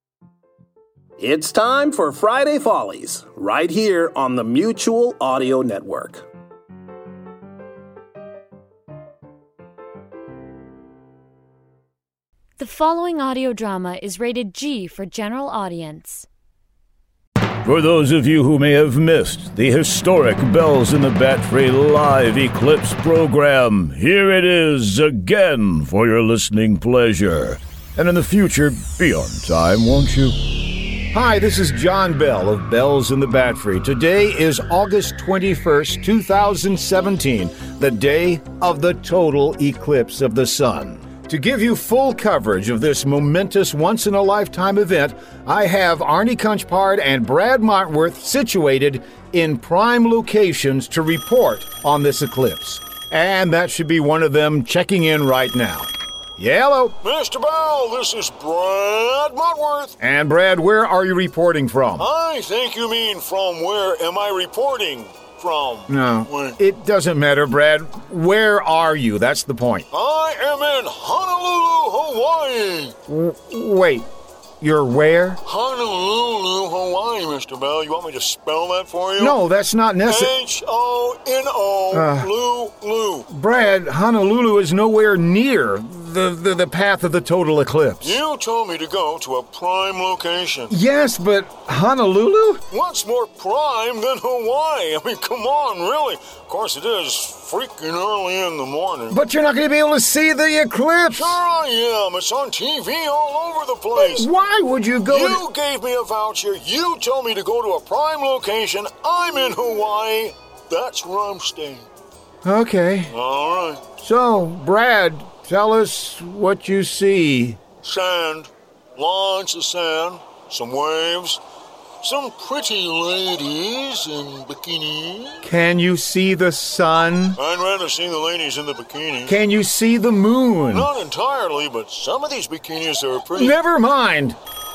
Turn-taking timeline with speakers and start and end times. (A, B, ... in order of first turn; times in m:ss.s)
0:01.2-0:06.2 A
0:12.6-0:16.3 B
0:17.6-0:30.4 C
0:31.1-0:57.0 C
0:57.0-1:00.0 D
1:00.0-1:02.1 C
1:02.0-1:06.6 D
1:05.9-1:09.8 C
1:09.9-1:13.0 D
1:13.1-1:14.0 C
1:14.6-1:15.4 C
1:15.4-1:19.4 D
1:19.2-1:20.3 C
1:20.0-1:23.3 D
1:21.9-1:22.3 C
1:23.3-1:28.2 C
1:28.0-1:30.8 D
1:30.7-1:32.6 C
1:32.7-1:39.2 D
1:39.1-1:41.4 C
1:41.2-1:44.2 D
1:44.0-1:45.4 C
1:45.1-1:51.9 D
1:52.4-1:53.1 C
1:53.1-1:53.9 D
1:54.0-1:57.6 C
1:57.8-2:01.4 D
2:02.0-2:05.4 D
2:05.4-2:07.4 C
2:07.4-2:09.4 D
2:09.2-2:10.9 C
2:10.7-2:13.6 D
2:13.3-2:14.4 C